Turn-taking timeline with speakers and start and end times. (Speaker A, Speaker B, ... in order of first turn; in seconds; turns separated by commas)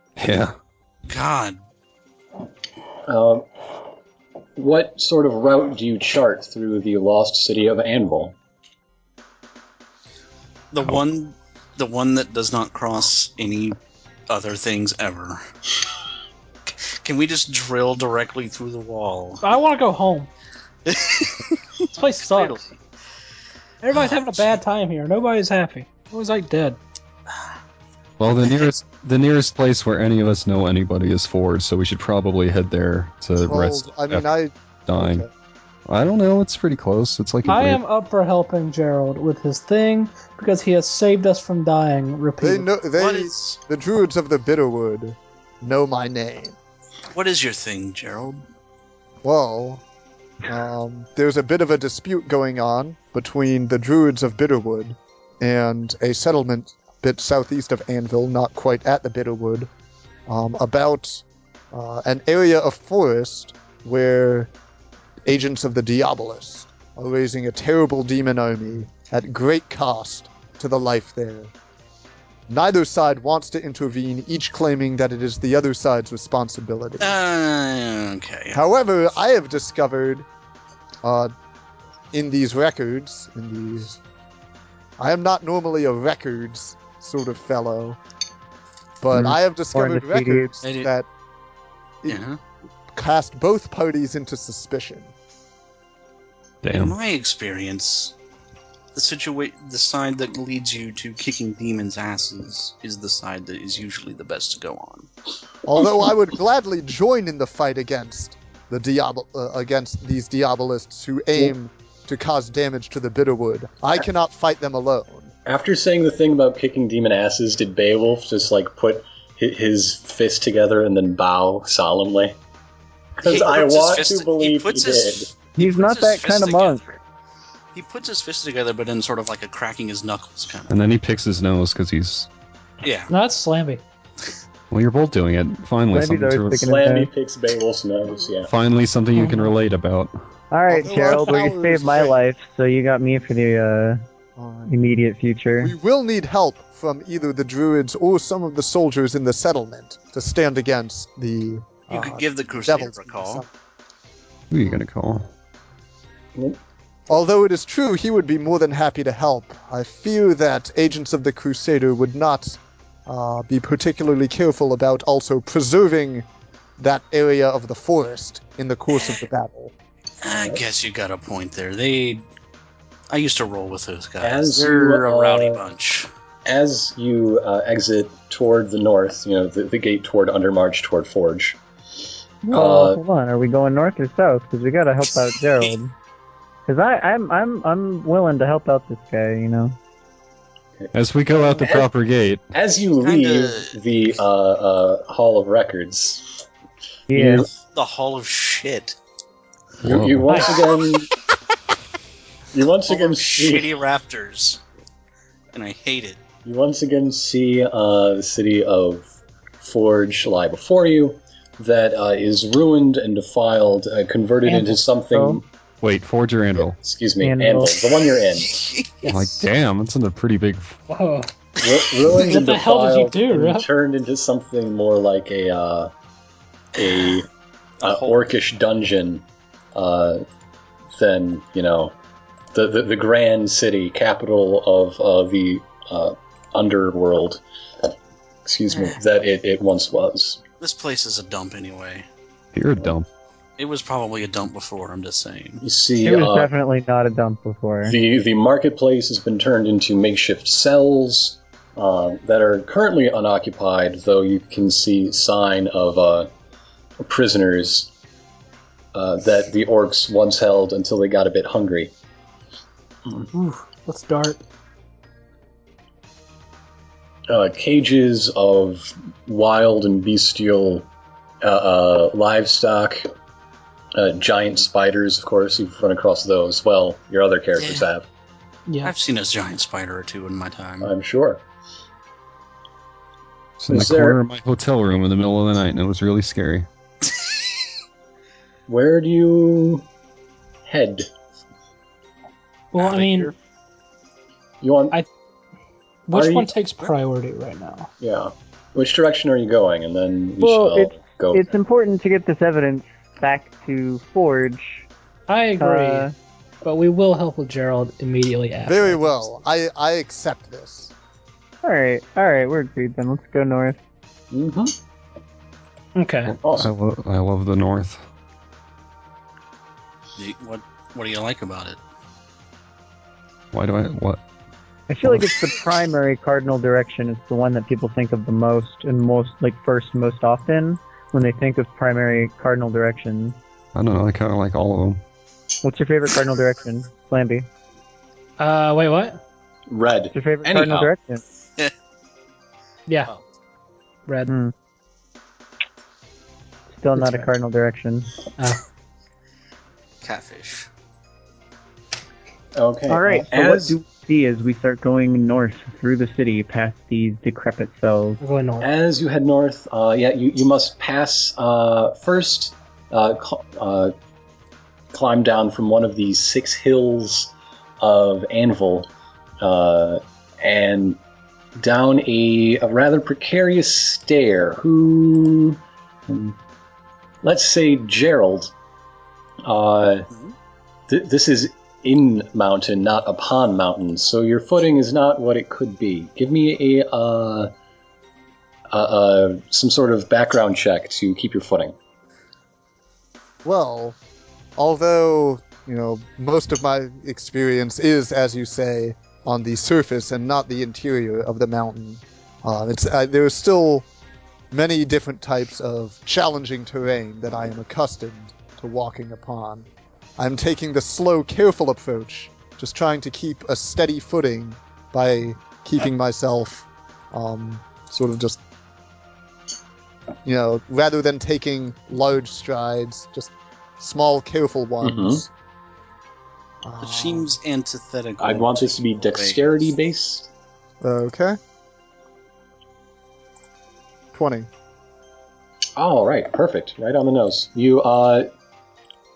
Speaker A: 0.2-0.5, Speaker B: 1.1-1.6, Speaker C: 3.1-3.5, Speaker C: 4.6-8.3, Speaker B: 10.7-13.8, Speaker B: 14.3-15.4, Speaker B: 16.7-19.4, Speaker D: 19.4-20.3, Speaker B: 20.9-22.8, Speaker D: 21.9-22.6, Speaker D: 23.8-26.8, Speaker B: 23.9-24.4, Speaker A: 28.2-34.3, Speaker E: 33.5-35.3, Speaker A: 34.9-35.3, Speaker A: 35.9-37.8, Speaker D: 37.5-42.7, Speaker E: 42.4-46.6, Speaker B: 43.0-43.6, Speaker B: 47.1-48.4, Speaker E: 49.2-49.8, Speaker E: 50.5-59.7, Speaker E: 60.3-64.5, Speaker E: 65.2-71.5, Speaker E: 72.5-77.2, Speaker B: 77.0-78.6, Speaker E: 78.5-80.3, Speaker E: 81.0-81.3, Speaker E: 82.1-84.0, Speaker E: 85.0-88.0, Speaker E: 89.0-91.1, Speaker F: 89.7-90.5, Speaker B: 90.6-90.9, Speaker B: 92.1-92.4, Speaker E: 92.9-95.1, Speaker A: 96.6-97.0, Speaker B: 96.7-98.2, Speaker B: 98.9-105.1, Speaker E: 105.7-115.3, Speaker C: 115.5-122.4, Speaker C: 123.2-125.3, Speaker B: 123.2-126.8, Speaker F: 125.6-127.0, Speaker B: 127.7-130.7, Speaker A: 130.7-132.3, Speaker B: 132.8-133.1, Speaker D: 133.1-133.8, Speaker A: 134.7-136.7, Speaker F: 135.9-137.1, Speaker C: 136.6-138.5, Speaker A: 138.5-140.1, Speaker D: 139.1-139.6, Speaker F: 140.5-144.0, Speaker E: 140.7-142.2, Speaker E: 144.4-144.7, Speaker F: 144.7-145.7, Speaker E: 145.6-153.5, Speaker B: 151.9-153.4, Speaker A: 154.5-155.3, Speaker E: 157.1-166.3, Speaker E: 166.8-169.7, Speaker B: 170.2-172.2, Speaker B: 173.1-176.1, Speaker C: 174.2-175.6, Speaker C: 176.5-181.6, Speaker F: 182.4-185.9, Speaker C: 182.5-183.0, Speaker F: 186.7-189.8, Speaker A: 190.9-192.4, Speaker C: 191.6-191.9, Speaker C: 192.5-196.3, Speaker B: 193.0-193.7, Speaker F: 197.1-197.5, Speaker C: 197.1-197.5, Speaker B: 197.7-199.0, Speaker C: 199.8-201.1, Speaker A: 199.8-200.4, Speaker C: 202.5-203.7, Speaker B: 202.9-204.6, Speaker B: 205.5-206.2, Speaker C: 206.4-215.5, Speaker F: 214.4-215.4, Speaker A: 215.8-216.8, Speaker C: 216.8-218.6, Speaker F: 217.2-217.8, Speaker B: 218.5-218.9, Speaker D: 219.0-219.5, Speaker A: 219.1-220.8, Speaker D: 220.9-221.3, Speaker C: 221.6-225.9, Speaker D: 222.1-223.7, Speaker C: 226.8-227.3, Speaker B: 227.8-228.2, Speaker C: 227.8-230.2, Speaker C: 230.9-232.0, Speaker C: 232.5-237.4, Speaker C: 238.4-240.4, Speaker B: 240.6-242.1, Speaker A: 242.5-243.1, Speaker B: 243.6-245.6, Speaker C: 245.6-246.5, Speaker F: 246.0-248.0, Speaker C: 247.9-256.3, Speaker C: 257.0-257.9, Speaker C: 258.9-261.9, Speaker D: 263.3-264.4, Speaker C: 267.3-270.9, Speaker C: 271.4-273.1, Speaker C: 273.9-278.1, Speaker B: 277.6-277.9, Speaker D: 278.7-278.9, Speaker B: 278.8-280.9, Speaker C: 280.8-281.4, Speaker A: 283.6-286.7, Speaker C: 283.7-284.2, Speaker C: 288.7-289.9, Speaker C: 290.7-291.1, Speaker D: 292.7-293.3, Speaker B: 292.8-293.3, Speaker C: 294.6-295.0, Speaker D: 296.1-297.9, Speaker C: 296.1-296.5, Speaker C: 298.0-301.6, Speaker F: 300.4-304.9, Speaker D: 305.3-306.1, Speaker F: 305.6-306.1, Speaker D: 306.6-309.1, Speaker E: 308.7-310.9, Speaker F: 311.6-313.8, Speaker C: 314.3-314.8, Speaker D: 316.0-316.4, Speaker C: 316.3-316.7, Speaker A: 316.6-318.0, Speaker B: 320.2-321.8, Speaker A: 323.5-324.2, Speaker F: 324.9-333.4, Speaker A: 333.8-335.0, Speaker F: 335.6-337.5, Speaker D: 338.4-339.2, Speaker C: 339.7-340.9, Speaker F: 340.1-341.2, Speaker D: 344.1-344.3, Speaker F: 344.3-344.5, Speaker F: 346.7-348.1, Speaker D: 347.0-347.3, Speaker B: 350.0-350.7, Speaker C: 352.5-353.8, Speaker F: 352.9-358.2, Speaker D: 358.2-358.7, Speaker C: 358.6-363.9, Speaker C: 364.9-368.9, Speaker C: 369.4-371.0, Speaker C: 371.6-376.4, Speaker C: 377.2-378.5, Speaker C: 379.4-380.1, Speaker C: 380.9-387.5, Speaker C: 388.7-391.8, Speaker E: 393.4-394.0, Speaker E: 394.6-403.9, Speaker E: 404.5-418.4, Speaker E: 420.2-425.3, Speaker C: 424.8-425.2, Speaker E: 426.6-427.3, Speaker B: 426.8-429.5, Speaker C: 428.2-430.3, Speaker E: 430.8-431.4, Speaker E: 434.1-434.5, Speaker C: 435.8-438.3